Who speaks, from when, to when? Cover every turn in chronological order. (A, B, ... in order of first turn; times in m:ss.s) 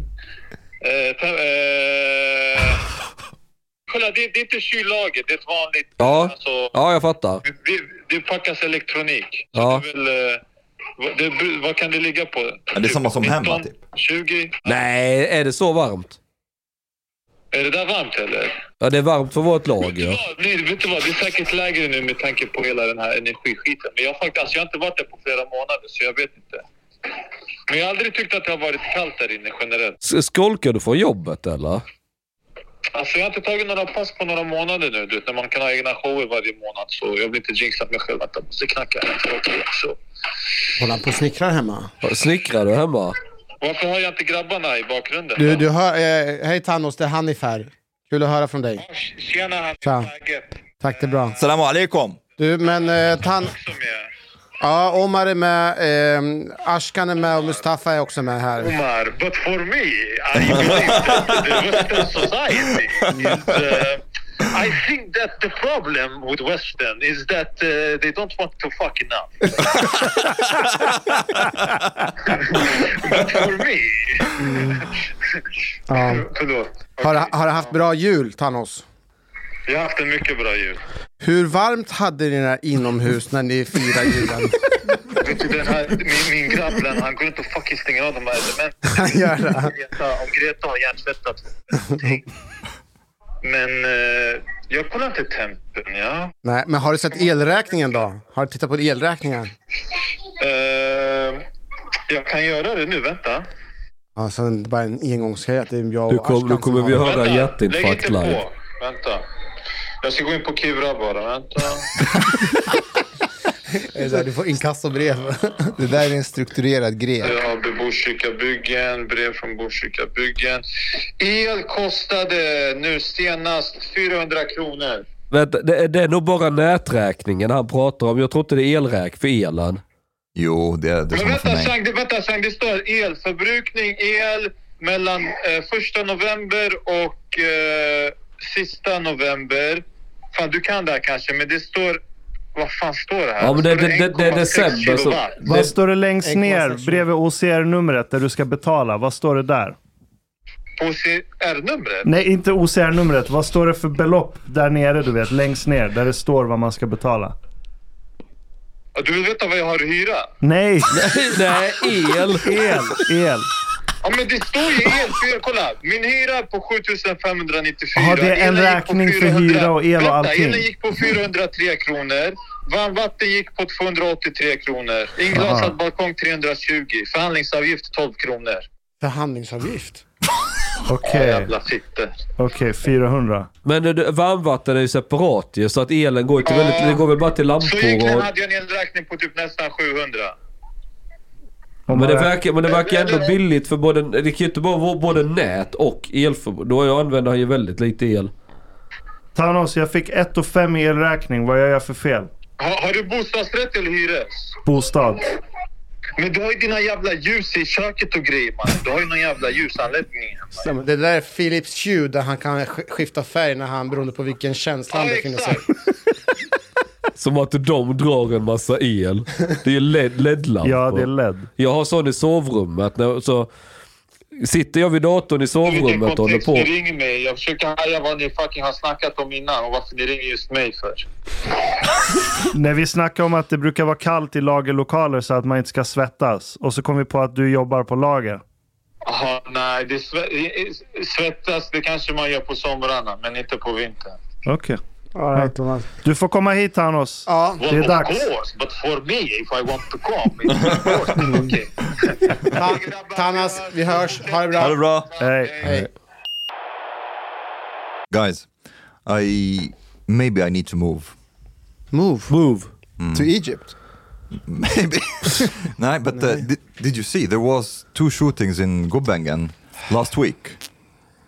0:00.8-0:02.8 A
0:03.9-0:06.7 A
0:06.0-0:07.4 B
0:07.4-0:10.4 A
0:09.6-0:09.8 B
0:11.0-0:14.6 A
0:12.7-0:13.8 C
0:14.6-0:16.2 B
0:17.5-0:18.6 A
0:18.8-0:20.2 B
0:19.9-0:26.6 A
0:27.7-0:30.0 A
0:30.0-0:31.8 B
0:32.9-0:40.0 A
0:40.8-0:41.9 D
0:42.0-0:43.2 B
0:43.6-0:45.6 A
0:45.4-0:48.8 D
0:48.8-0:51.4 A
0:49.8-0:50.1 D
0:50.8-0:51.4 D
0:51.4-0:52.2 C
0:52.4-0:53.6 D
0:53.3-0:54.1 A
0:54.6-0:58.8 D
0:58.6-1:10.0 A
1:00.7-1:01.4 C
1:12.2-1:17.7 A
1:14.4-1:14.9 D
1:15.9-1:16.3 D
1:17.0-1:18.8 D
1:19.7-1:20.8 A
1:21.2-1:24.9 D
1:25.1-1:32.2 A
1:28.9-1:29.8 D
1:31.8-1:32.2 D
1:33.4-1:36.3 A
1:36.4-1:39.5 D
1:40.4-1:41.5 A
1:42.1-1:43.5 A
1:44.2-1:47.1 D
1:46.1-1:48.4 B
1:47.0-1:49.2 A
1:50.0-1:51.9 A
1:53.8-1:55.8 D
1:54.0-1:54.2 E
1:55.8-1:57.4 E
1:57.2-2:00.6 A
2:01.2-2:05.0 A
2:05.3-2:09.8 B
2:10.4-2:11.7 C
2:11.1-2:22.0 A
2:22.6-2:25.4 A
2:23.4-2:25.7 B
2:25.5-2:29.8 F
2:26.2-2:27.0 D
2:30.8-2:32.1 A
2:32.0-2:37.4 F
2:39.0-2:40.3 A
2:40.4-2:41.0 F
2:40.9-2:42.7 B
2:42.4-2:43.5 F
2:44.0-2:58.7 A
2:48.0-2:50.7 F
2:55.3-2:55.8 F
2:59.0-3:00.0 D
3:00.9-3:01.5 F
3:01.0-3:02.1 A
3:02.4-3:03.5 F
3:03.6-3:08.3 B
3:06.5-3:07.0 A
3:07.6-3:10.4 A
3:11.9-3:12.3 F
3:11.9-3:18.3 B
3:12.7-3:13.3 A
3:19.4-3:22.3 F
3:22.6-3:24.6 A
3:24.6-3:25.3 F
3:26.2-3:30.7 A
3:30.6-3:35.7 D
3:34.9-3:35.7 A
3:37.2-3:43.5 B
3:40.6-3:41.5 F
3:44.4-3:46.7 B
3:45.6-3:51.1 A
3:52.5-3:58.4 F
3:59.1-4:04.2 A
4:04.5-4:04.8 F
4:05.2-4:05.9 D
4:05.3-4:08.3 F
4:07.3-4:07.6 D
4:07.6-4:15.7 A
4:11.3-4:11.6 D
4:12.4-4:14.8 D
4:14.6-4:15.1 C
4:15.2-4:15.7 F
4:15.6-4:15.9 D
4:18.1-4:18.5 C
4:19.0-4:21.2 C
4:21.9-4:22.3 D
4:22.3-4:22.7 B
4:23.0-4:23.3 C
4:23.1-4:23.7 E
4:24.5-4:30.6 C